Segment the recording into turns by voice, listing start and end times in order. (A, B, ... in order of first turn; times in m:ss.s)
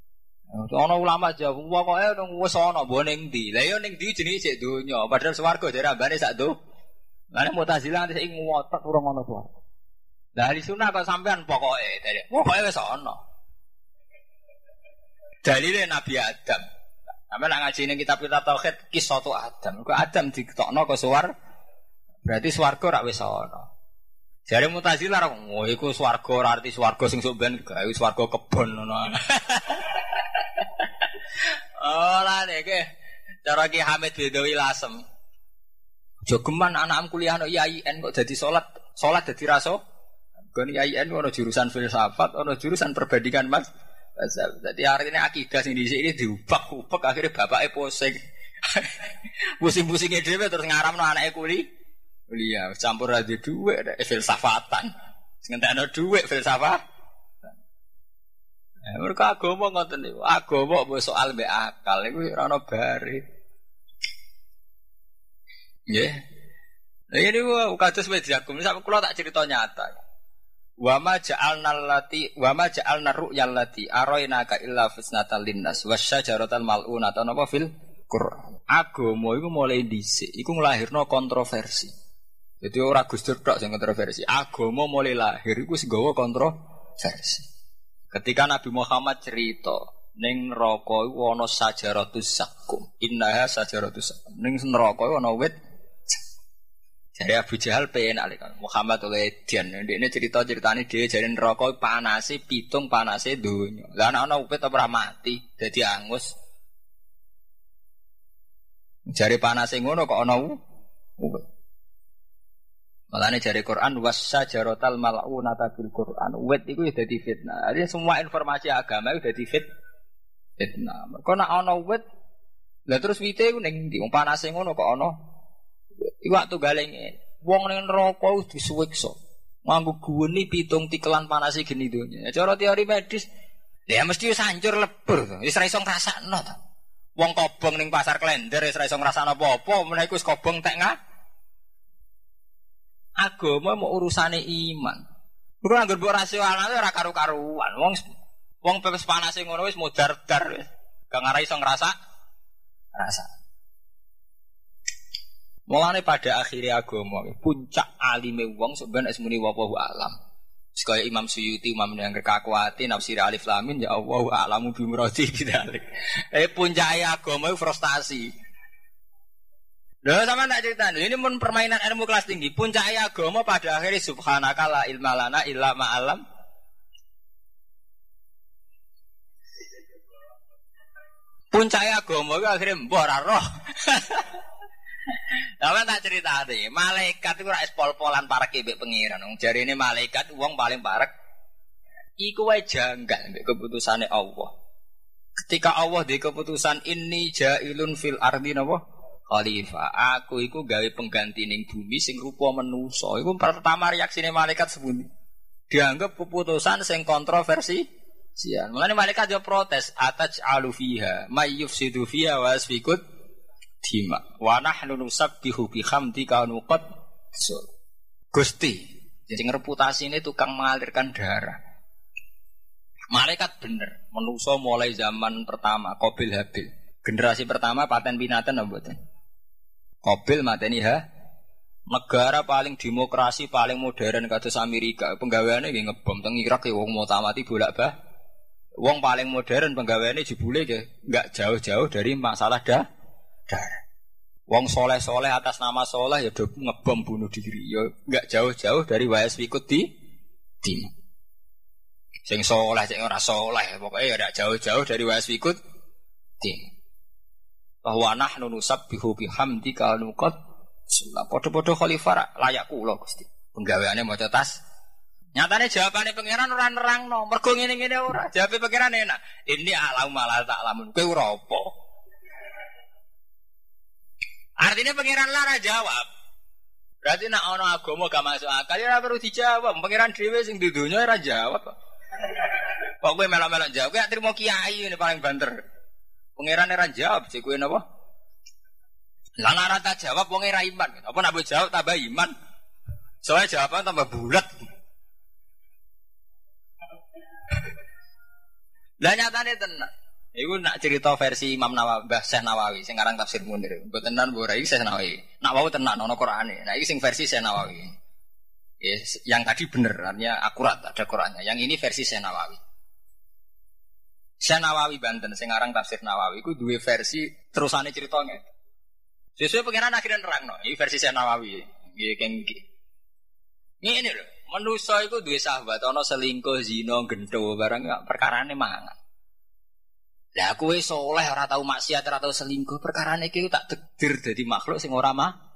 0:00.5-0:06.5 A
0:07.3-0:09.5 A
0:10.4-0:13.2 A
0:15.4-0:16.6 A
0:17.3-0:21.3 A
0:22.2-0:23.6 A
0:24.5-0:32.8 A
0:33.4-0:35.0 A
0:36.2-0:39.8 A
0:40.5-0:43.6 A
0:44.2-0:51.6 A
0:52.3-0:54.9 A
0:55.4-0:56.8 A
0:58.9-1:03.2 A
1:07.1-1:10.0 A
1:10.8-1:21.9 A
1:22.6-1:27.4 A
1:28.1-1:35.5 A
1:37.2-1:46.3 A
1:49.1-1:50.5 A
1:51.2-1:51.5 A
1:53.1-1:59.7 A
2:00.6-2:02.0 A
2:02.9-2:05.1 A
2:06.2-2:13.2 A
2:13.9-2:16.6 A
2:17.2-2:20.9 A
2:23.2-2:25.0 A
2:25.6-2:31.9 A
2:32.9-2:33.3 A
2:35.7-2:40.1 A
2:40.7-2:48.3 A
2:50.0-2:56.2 A
3:01.5-3:04.4 A
3:05.1-3:11.1 A
3:12.2-3:14.5 A
3:15.4-3:25.1 A
3:25.7-3:27.8 A
3:28.4-3:33.0 A
3:33.8-3:37.7 A
3:38.3-3:41.6 A
3:43.1-3:49.0 A
3:50.0-3:51.0 A
3:51.9-3:57.9 A
3:58.8-4:02.8 A
4:03.5-4:03.8 A
4:04.5-4:09.9 A
4:10.6-4:10.9 A
4:12.2-4:15.6 A
4:16.4-4:16.7 A
4:17.8-4:20.3 A
4:20.9-4:24.6 A
4:25.3-4:31.7 A
4:34.6-4:36.1 A
4:37.0-4:41.7 A
4:42.3-4:45.5 A
4:46.4-4:47.8 A
4:49.4-4:52.3 A
4:53.2-4:54.5 A
4:59.0-5:07.9 A
5:08.8-5:12.6 A
5:14.4-5:18.4 A
5:19.4-5:22.6 A
5:23.8-5:29.0 A
5:30.4-5:35.3 A